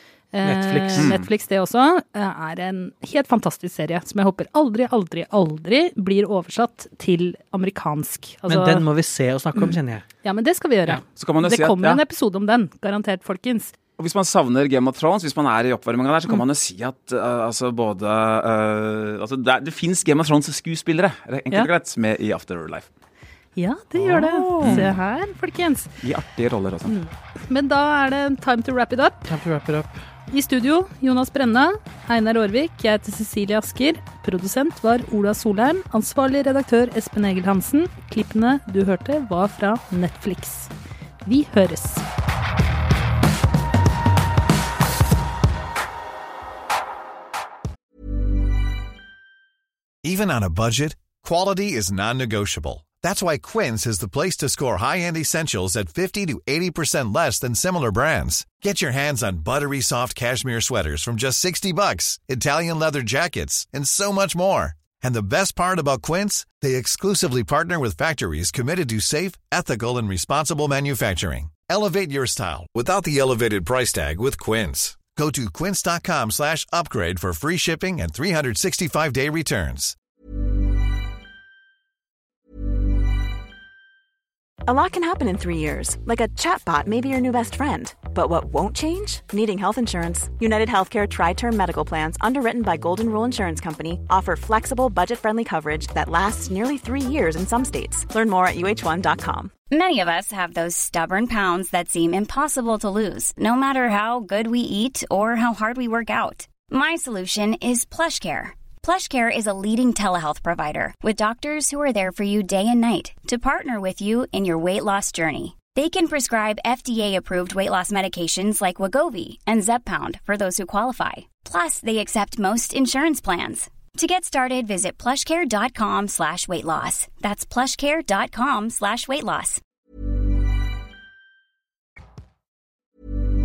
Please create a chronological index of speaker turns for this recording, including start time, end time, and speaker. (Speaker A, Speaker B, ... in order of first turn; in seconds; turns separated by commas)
Speaker A: 0.3-8.9, Speaker B: 0.4-1.1, Speaker C: 1.0-1.3, Speaker B: 8.5-10.1, Speaker A: 10.2-13.7, Speaker C: 11.2-12.0, Speaker C: 14.0-22.9, Speaker A: 23.6-25.9, Speaker B: 24.0-24.9, Speaker C: 24.6-24.9, Speaker C: 26.0-26.9, Speaker A: 26.9-29.3, Speaker B: 29.2-30.0, Speaker A: 30.3-40.7, Speaker A: 41.2-42.0, Speaker D: 50.0-80.0, Speaker E: 84.7-99.5, Speaker F: 99.7-129.6